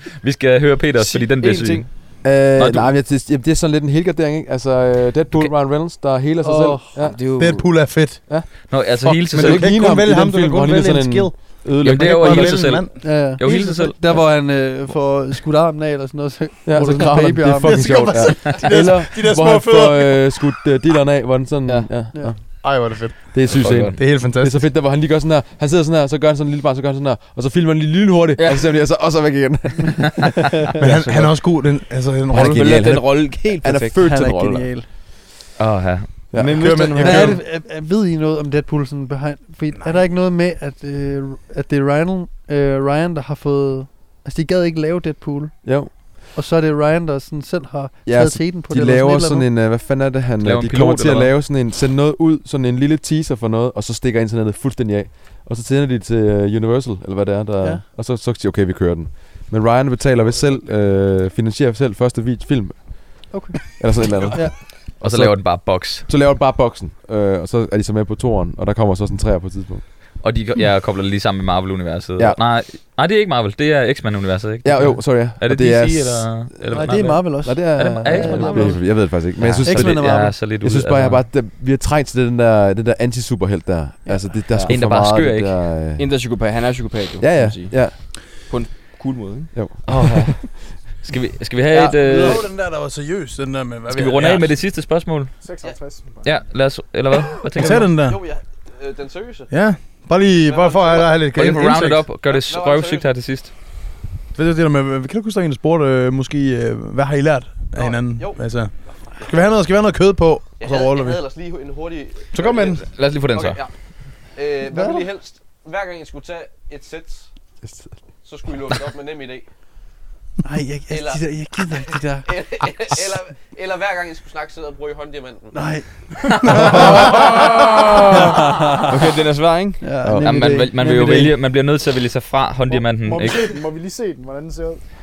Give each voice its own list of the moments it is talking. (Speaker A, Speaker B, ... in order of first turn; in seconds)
Speaker A: 0.2-2.9, 8.7-9.7, 11.8-14.2, 23.5-24.1, 35.6-36.2, 50.4-51.3, 65.0-66.0, 70.2-81.2, 84.7-85.6, 89.9-92.4, 93.9-95.4, 96.2-97.9, 101.3-103.5, 112.9-113.6, 130.1-133.6
Speaker B: 0.9-1.9, 7.0-7.9, 21.6-22.0, 32.8-33.9, 36.3-37.4, 86.0-89.5, 128.9-129.8
Speaker C: 2.2-7.2, 9.1-12.6, 16.6-31.4, 32.3-34.7, 36.3-36.9, 45.6-45.9, 48.0-69.9, 74.6-86.2, 87.2-88.3, 89.5-90.4, 117.6-118.0, 130.0-130.5
Speaker D: 6.4-6.9, 13.0-18.0, 34.0-34.9, 37.0-49.5, 63.3-64.5, 76.7-80.3, 120.4-122.9, 125.5-126.9, 128.1-128.9, 129.8-131.3
Speaker E: 7.4-13.6, 17.5-20.4, 22.6-24.7, 30.7-32.7, 36.5-37.4, 39.8-40.0, 91.7-94.5, 97.5-98.2, 99.5-102.0, 104.3-111.2, 112.3-112.8, 126.5-127.0
Speaker F: 95.4-96.4, 132.7-134.8
Speaker G: 95.6-95.9, 97.7-99.5, 100.4-101.3, 102.2-103.1, 107.7-109.5, 110.6-113.7, 114.3-117.3, 118.2-119.5, 120.9-125.7